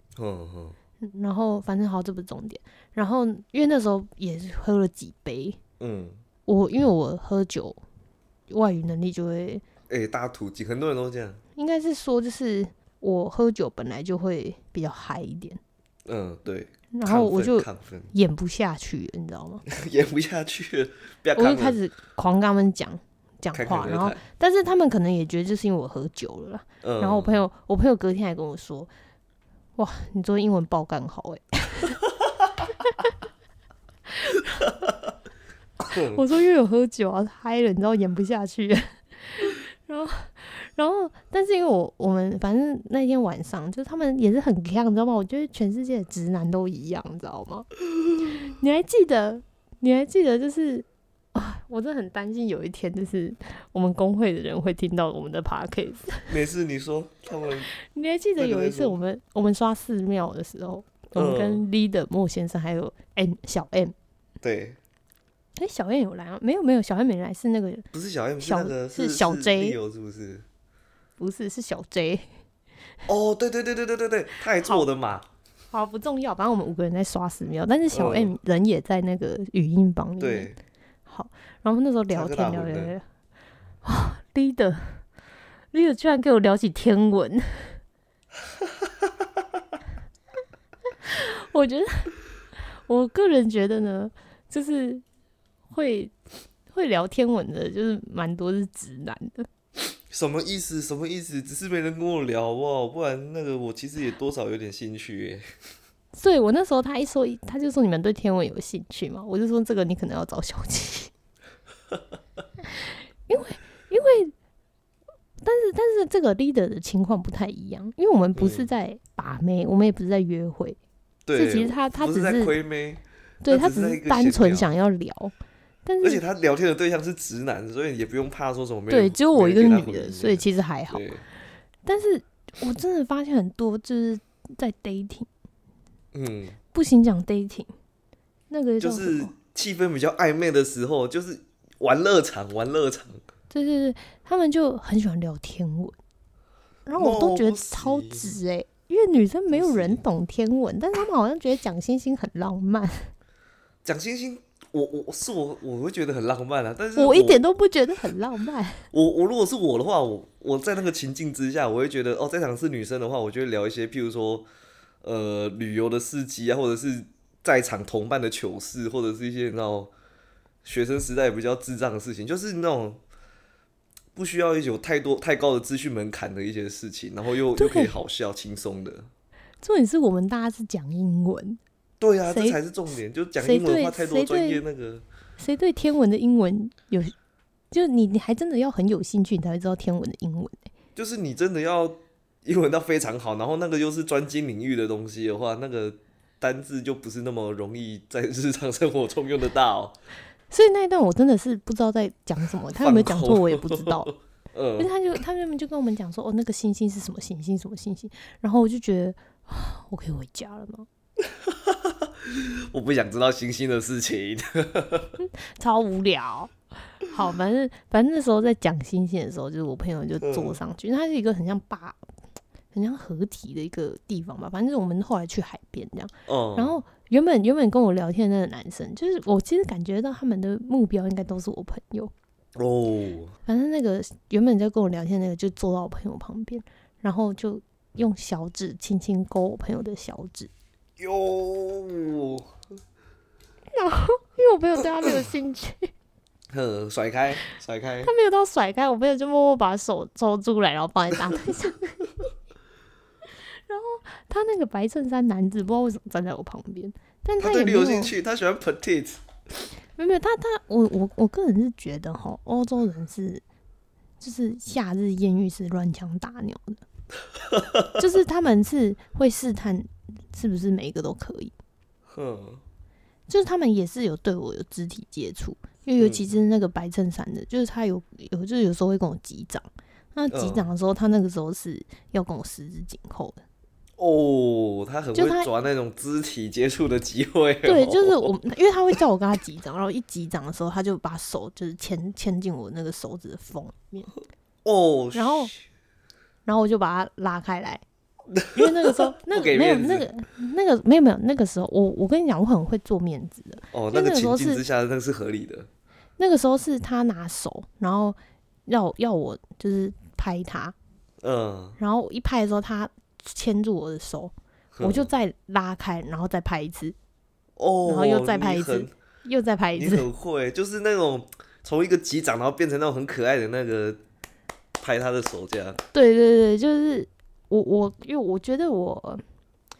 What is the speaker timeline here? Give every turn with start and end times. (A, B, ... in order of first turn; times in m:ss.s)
0:00.2-0:00.8 A
0:01.0-0:05.6 B
0:05.8-0:06.2 A
0:06.5-0:07.8 B
0:08.5-0:09.6 B
0:09.9-0:11.4 A
0:11.6-0:15.6 B
0:16.0-0:18.1 A
0:16.9-0:19.6 B
0:19.6-0:21.8 A
0:21.3-0:28.9 B
0:23.5-0:24.2 A
0:26.8-0:27.4 A
0:29.8-0:32.0 B
0:34.2-0:34.6 B
0:34.7-0:34.9 A
0:35.8-0:36.2 A
0:36.1-0:47.7 B
0:48.2-0:56.3 B
0:56.3-0:57.7 A
0:57.8-1:03.9 B
0:58.4-0:59.0 A
1:01.1-1:01.6 A
1:04.4-1:04.8 A
1:05.6-1:07.8 B
1:07.9-1:10.4 A
1:08.4-1:09.8 B
1:11.2-1:12.2 B
1:13.1-1:15.2 A
1:15.7-1:20.5 B
1:17.9-1:18.3 A
1:20.2-1:20.6 A
1:21.1-1:23.0 B
1:22.1-1:22.9 A
1:23.8-1:25.0 B
1:25.7-1:27.8 B
1:28.6-1:29.1 A
1:31.0-1:32.1 B
1:32.9-1:35.0 B
1:35.7-1:36.1 B
1:36.7-1:39.5 B
1:40.1-1:45.4 A
1:46.1-1:51.1 B
1:52.8-1:54.3 B
1:55.4-2:00.8 B
1:58.3-1:58.7 A
2:01.3-2:04.7 A
2:01.3-2:02.5 B
2:03.4-2:05.3 B
2:05.8-2:06.2 B
2:06.0-2:11.2 A
2:08.9-2:11.0 B
2:11.8-2:15.3 B
2:16.1-2:16.6 A
2:16.7-2:17.7 B
2:18.5-2:19.3 B
2:18.8-2:23.2 A
2:23.5-2:26.0 B
2:26.9-2:33.1 B
2:27.0-2:28.3 A
2:29.5-2:30.0 A
2:33.8-2:37.4 A
2:37.0-2:38.9 B
2:38.9-2:44.4 A
2:45.0-2:49.9 A
2:50.6-2:53.0 A
2:54.1-2:59.1 A
2:57.6-2:57.9 B
2:59.6-3:01.6 B
3:02.0-3:05.0 A
3:02.3-3:02.6 B
3:03.4-3:04.6 B
3:05.4-3:07.1 B
3:07.7-3:10.6 B
3:11.0-3:19.9 A
3:20.5-3:24.1 B
3:22.8-3:24.9 A
3:24.8-3:30.9 B
3:31.2-3:35.2 A
3:35.2-3:42.0 B
3:40.2-3:40.6 A
3:42.7-3:52.1 B
3:46.3-3:46.8 A
3:52.6-3:53.4 A
3:53.4-4:00.5 B
4:01.0-4:02.5 A
4:03.7-4:05.9 B
4:06.5-4:08.1 A
4:08.0-4:12.2 B
4:13.7-4:18.1 B
4:17.4-4:19.2 A
4:20.0-4:23.4 B
4:24.2-4:26.8 B
4:27.5-4:27.9 A
4:28.0-4:31.5 B
4:32.1-4:32.6 A
4:33.3-4:43.4 B
4:40.3-4:40.7 A
4:44.0-4:48.3 A
4:45.1-4:45.5 B
4:47.6-4:54.1 B
4:54.6-4:55.6 A
4:55.1-4:55.5 B
4:56.4-4:57.8 B
4:58.3-5:00.1 A
4:58.5-5:04.6 B
5:03.7-5:05.7 A
5:06.2-5:10.7 B
5:11.2-5:11.8 A
5:11.8-5:17.0 B
5:14.8-5:15.1 A
5:17.6-5:18.9 A
5:17.8-5:20.1 B
5:19.7-5:24.0 A
5:24.8-5:25.8 A
5:25.9-5:29.2 B